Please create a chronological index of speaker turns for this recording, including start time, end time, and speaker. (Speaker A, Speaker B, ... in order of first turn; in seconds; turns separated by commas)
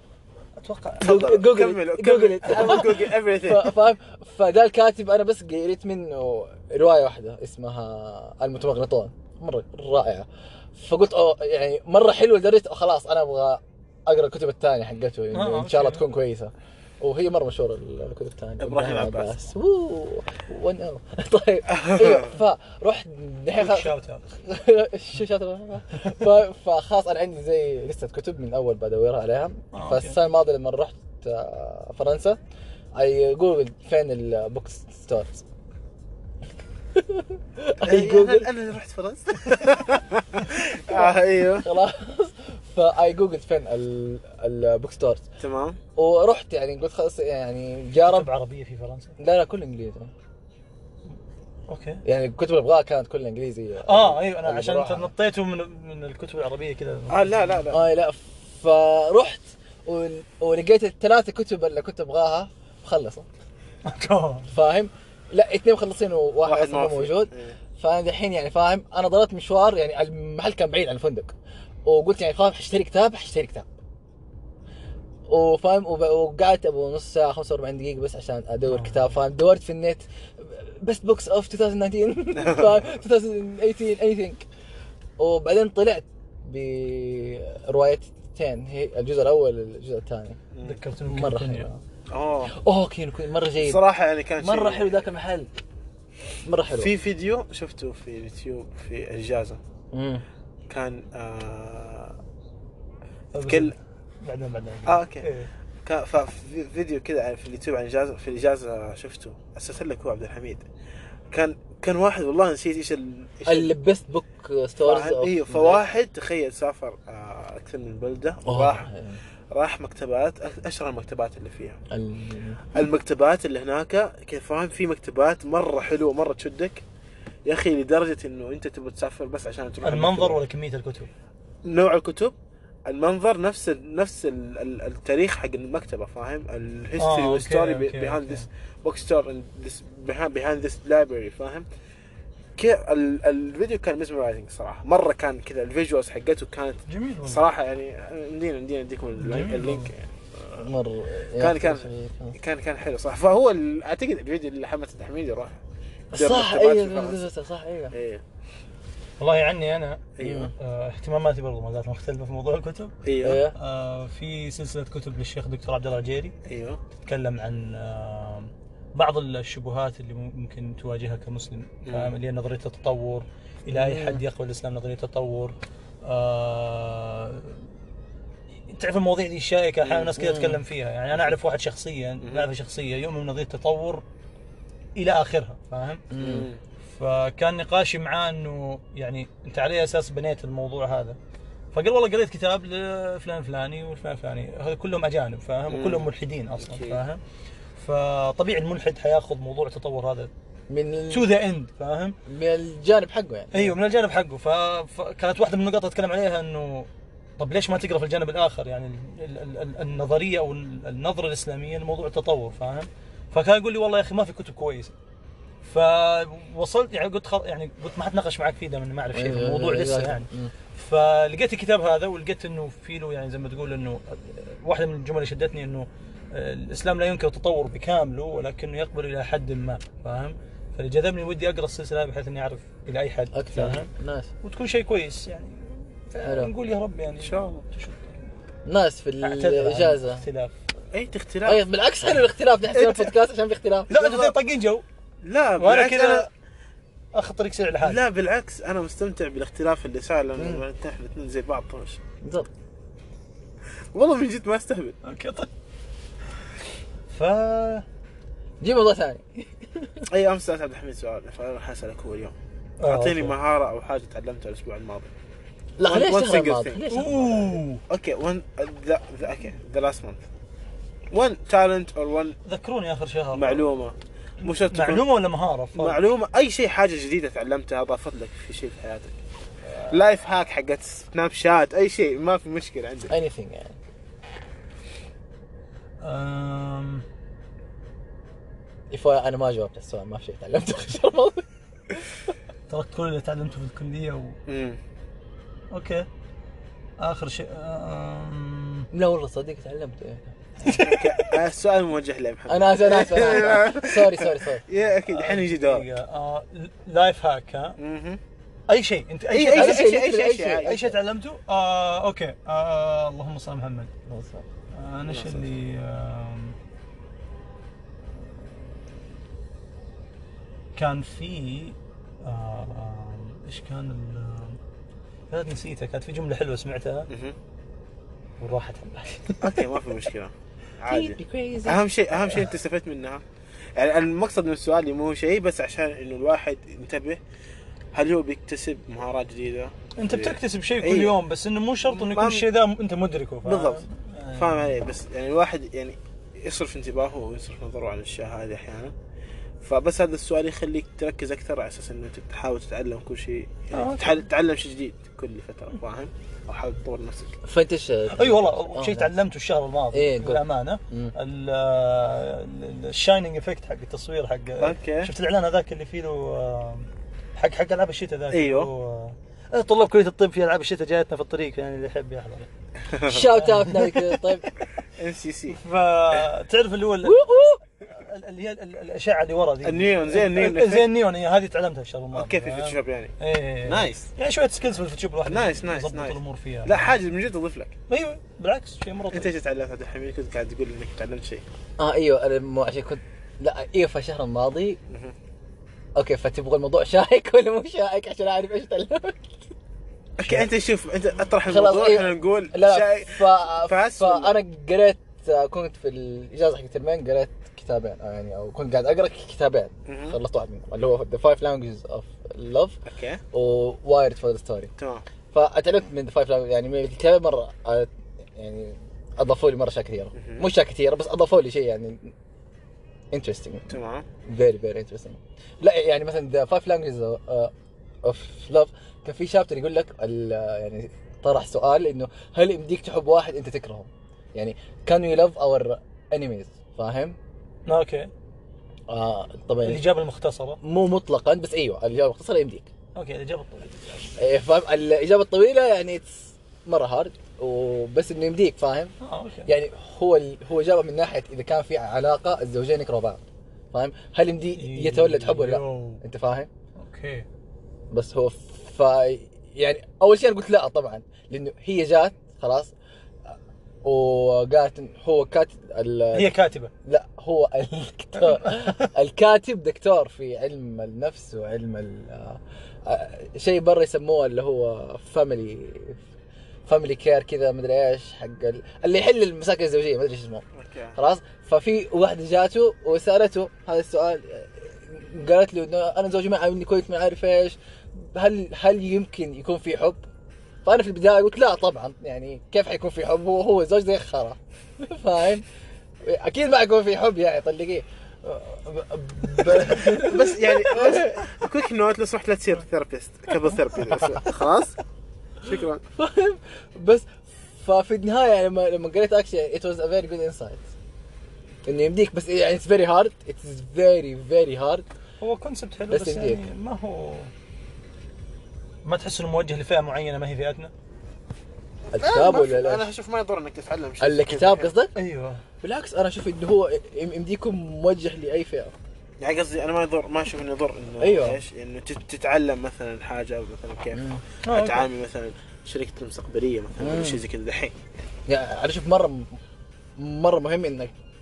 Speaker A: 0.6-1.1, Speaker B: 1.0-32.4, Speaker C: 1.0-3.8, Speaker A: 15.3-16.1, Speaker C: 18.6-19.4, Speaker C: 21.7-22.3, Speaker A: 23.6-24.2, Speaker A: 29.7-30.1, Speaker B: 32.9-35.4, Speaker B: 36.9-38.5, Speaker C: 37.8-41.7, Speaker B: 40.6-45.2, Speaker C: 45.4-45.8, Speaker B: 46.0-48.3, Speaker A: 47.9-49.1, Speaker B: 49.2-50.1, Speaker A: 51.7-52.0, Speaker B: 52.0-55.1, Speaker A: 53.8-57.6, Speaker C: 57.1-57.8, Speaker B: 57.7-63.2, Speaker A: 63.9-64.5, Speaker B: 64.5-71.3, Speaker C: 66.4-67.6, Speaker B: 71.8-73.7, Speaker B: 75.3-84.5, Speaker A: 78.7-79.0, Speaker C: 82.4-82.7, Speaker B: 85.2-90.4, Speaker A: 90.6-91.8, Speaker B: 91.1-91.7, Speaker C: 92.1-92.5, Speaker B: 92.5-93.8, Speaker C: 93.6-94.9, Speaker B: 94.4-95.5, Speaker B: 96.4-96.9, Speaker C: 96.7-99.6, Speaker B: 99.9-100.2, Speaker C: 100.7-102.2, Speaker A: 103.3-105.5, Speaker C: 103.4-103.7, Speaker C: 104.9-105.3, Speaker C: 105.8-110.6, Speaker C: 111.3-113.8, Speaker B: 113.5-115.8, Speaker C: 114.8-118.9, Speaker B: 118.4-119.2, Speaker C: 119.5-121.8, Speaker B: 121.9-122.7, Speaker C: 122.7-126.8, Speaker C: 127.5-130.4, Speaker A: 129.8-131.1, Speaker C: 131.6-132.3, Speaker C: 132.9-141.7, Speaker A: 137.0-138.5, Speaker C: 142.6-150.7, Speaker A: 146.9-147.4, Speaker A: 149.2-149.9, Speaker B: 150.5-152.3, Speaker C: 151.4-155.6, Speaker C: 156.1-157.2, Speaker B: 156.1-157.9, Speaker C: 157.9-158.2, Speaker A: 159.2-160.1, Speaker C: 160.2-160.5, Speaker B: 160.2-160.5, Speaker A: 160.6-162.9, Speaker C: 163.0-163.4, Speaker B: 163.2-163.6, Speaker A: 163.6-166.3, Speaker C: 166.4-166.8, Speaker A: 167.0-175.5, Speaker C: 171.9-172.1, Speaker B: 173.7-174.2, Speaker A: 176.1-177.6, Speaker A: 178.7-184.0, Speaker C: 179.8-180.1, Speaker B: 180.2-180.6, Speaker C: 182.2-182.5, Speaker A: 185.0-186.0, Speaker B: 186.1-186.5, Speaker C: 186.2-186.6, Speaker A: 186.9-191.2, Speaker A: 191.7-197.2, Speaker C: 195.7-196.1, Speaker C: 196.6-197.0, Speaker A: 197.8-200.3, Speaker B: 200.7-201.3, Speaker A: 201.1-202.2, Speaker B: 202.3-203.8, Speaker A: 203.5-214.9, Speaker A: 215.6-233.9, Speaker B: 219.1-220.5, Speaker B: 233.3-234.3, Speaker A: 234.4-238.2, Speaker B: 236.2-236.5, Speaker C: 237.2-237.6, Speaker B: 238.7-240.2, Speaker A: 239.2-240.6, Speaker C: 240.9-241.6, Speaker B: 241.4-243.9, Speaker C: 242.7-243.1, Speaker A: 243.9-244.8, Speaker C: 243.9-244.3, Speaker C: 245.2-246.3, Speaker A: 245.6-246.3, Speaker A: 247.1-248.0, Speaker C: 247.8-252.0, Speaker B: 250.4-250.6, Speaker B: 252.2-252.5, Speaker C: 253.9-255.0, Speaker A: 255.0-255.5, Speaker A: 257.1-257.9, Speaker B: 258.6-260.1, Speaker C: 260.1-265.1, Speaker A: 262.8-263.4, Speaker B: 265.8-267.6, Speaker C: 265.8-266.8, Speaker A: 266.9-267.8, Speaker C: 267.9-270.2, Speaker C: 271.1-272.4, Speaker A: 272.4-273.6, Speaker C: 273.4-275.1, Speaker A: 274.7-276.0, Speaker C: 275.8-279.1, Speaker A: 279.7-279.9, Speaker C: 279.9-283.1, Speaker B: 283.1-283.8, Speaker A: 286.0-287.1, Speaker B: 288.9-292.1, Speaker A: 292.7-294.4, Speaker C: 294.5-294.8, Speaker A: 295.7-296.1, Speaker A: 297.0-298.9, Speaker B: 298.9-300.4, Speaker A: 300.6-301.4, Speaker C: 300.8-305.9, Speaker B: 302.5-304.6, Speaker A: 305.1-307.8, Speaker C: 307.8-308.2, Speaker A: 308.7-310.0, Speaker C: 309.3-310.7, Speaker B: 309.5-310.9, Speaker A: 310.6-313.9, Speaker B: 314.1-314.4, Speaker A: 314.7-316.6, Speaker C: 315.1-315.5, Speaker A: 320.8-324.6, Speaker A: 325.3-327.1, Speaker C: 327.1-327.4, Speaker A: 328.4-329.7, Speaker C: 329.4-333.2, Speaker B: 330.9-331.9, Speaker C: 333.8-337.2, Speaker C: 337.9-341.2, Speaker A: 340.0-344.8, Speaker C: 341.9-342.4, Speaker C: 343.4-348.9, Speaker C: 349.6-357.4, Speaker A: 353.7-354.2, Speaker B: 357.4-359.1, Speaker A: 358.1-372.5, Speaker B: 359.9-361.1, Speaker C: 364.6-365.1, Speaker C: 368.3-368.7, Speaker C: 372.9-373.3, Speaker B: 373.1-374.4, Speaker A: 373.4-373.9, Speaker C: 374.9-375.6, Speaker A: 375.6-386.9, Speaker B: 377.0-377.6, Speaker C: 379.6-380.9, Speaker C: 382.1-383.1, Speaker C: 383.6-384.1, Speaker C: 385.3-387.8, Speaker A: 387.9-389.3, Speaker C: 389.1-391.4, Speaker B: 391.8-394.8, Speaker B: 396.0-399.4, Speaker C: 400.2-404.4, Speaker A: 400.2-400.5, Speaker B: 401.4-412.8, Speaker C: 409.9-410.2, Speaker C: 412.9-413.2, Speaker B: 413.3-414.7, Speaker C: 414.8-415.1, Speaker B: 415.3-422.1, Speaker C: 420.1-420.5, Speaker B: 423.1-423.7, Speaker C: 423.7-424.1, Speaker B: 424.2-427.5, Speaker B: 428.0-437.2, Speaker A: 437.7-438.1, Speaker B: 438.9-439.8, Speaker A: 439.6-440.6, Speaker B: 440.6-442.7, Speaker A: 442.9-443.8, Speaker B: 444.1-448.9, Speaker A: 449.0-449.5, Speaker B: 449.4-456.5, Speaker A: 454.6-456.0, Speaker A: 456.8-457.2, Speaker B: 457.9-462.7, Speaker B: 463.8-466.3, Speaker A: 466.1-466.7, Speaker B: 466.9-476.0, Speaker A: 468.2-468.9, Speaker B: 476.7-480.4, Speaker C: 480.6-481.0, Speaker B: 480.9-490.0, Speaker B: 490.6-495.4, Speaker B: 496.0-501.3, Speaker C: 500.0-504.8, Speaker C: 505.4-505.8, Speaker B: 506.0-510.7, Speaker B: 511.6-514.9, Speaker A: 515.2-517.3, Speaker B: 515.9-516.4, Speaker A: 518.9-520.7, Speaker B: 521.9-522.9, Speaker C: 522.0-524.7, Speaker B: 524.0-524.9, Speaker A: 524.9-525.4, Speaker B: 525.6-528.7, Speaker C: 529.2-537.8, Speaker B: 531.0-531.4, Speaker B: 533.9-534.2, Speaker A: 534.4-534.9, Speaker B: 536.8-537.2, Speaker B: 538.3-539.3, Speaker B: 540.0-540.9